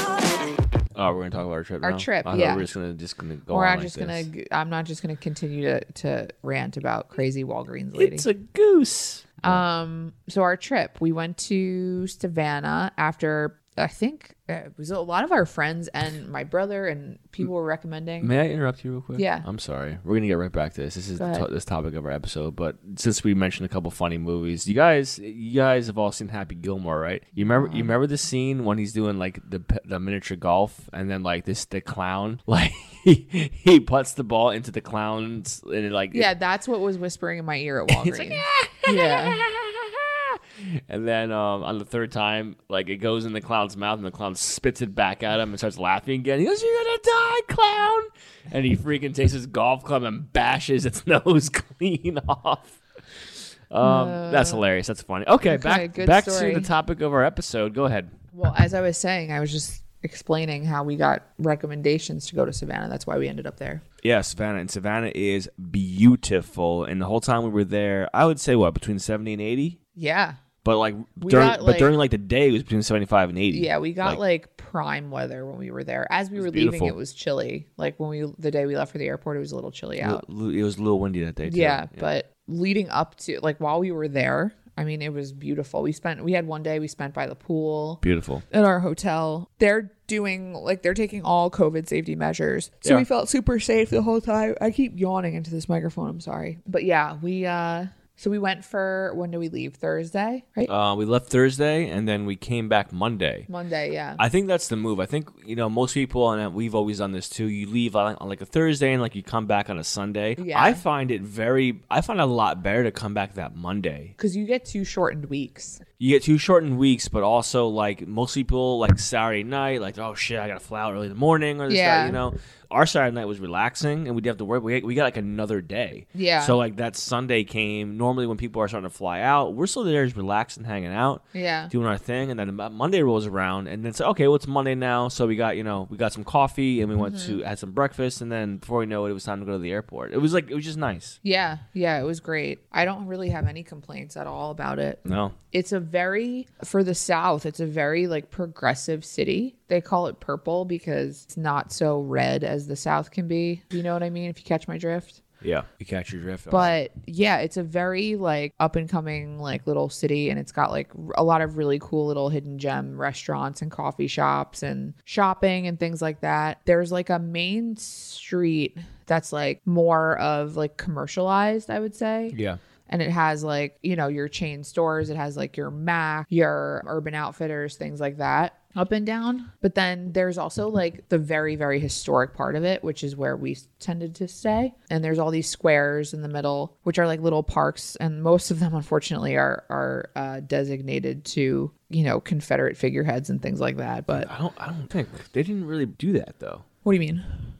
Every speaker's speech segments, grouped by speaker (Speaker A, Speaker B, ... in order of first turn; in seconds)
Speaker A: 0.9-4.3, 8.0-9.6, 18.2-36.3, 37.9-52.8, 53.7-58.1, 64.0-69.8, 70.6-74.2, 76.3-76.9, 80.0-82.1, 88.0-88.4, 100.7-103.5, 104.2-114.1, 116.0-141.2, 145.0-145.3, 155.4-156.8, 172.3-172.6, 194.1-196.6
Speaker B: 1.8-2.7, 3.5-8.3, 9.4-18.3, 19.1-19.4, 21.2-21.4, 27.5-27.9, 36.1-39.4, 53.8-54.6, 55.5-56.7, 58.3-63.8, 70.0-70.4, 71.2-71.9, 73.5-80.2, 81.4-100.7, 103.5-104.2, 110.4-110.8, 114.2-115.8, 121.7-122.2, 126.1-126.6, 131.3-131.7, 137.0-137.4, 141.2-145.0, 145.5-155.2, 156.5-172.4, 172.9-194.3, 196.8-197.5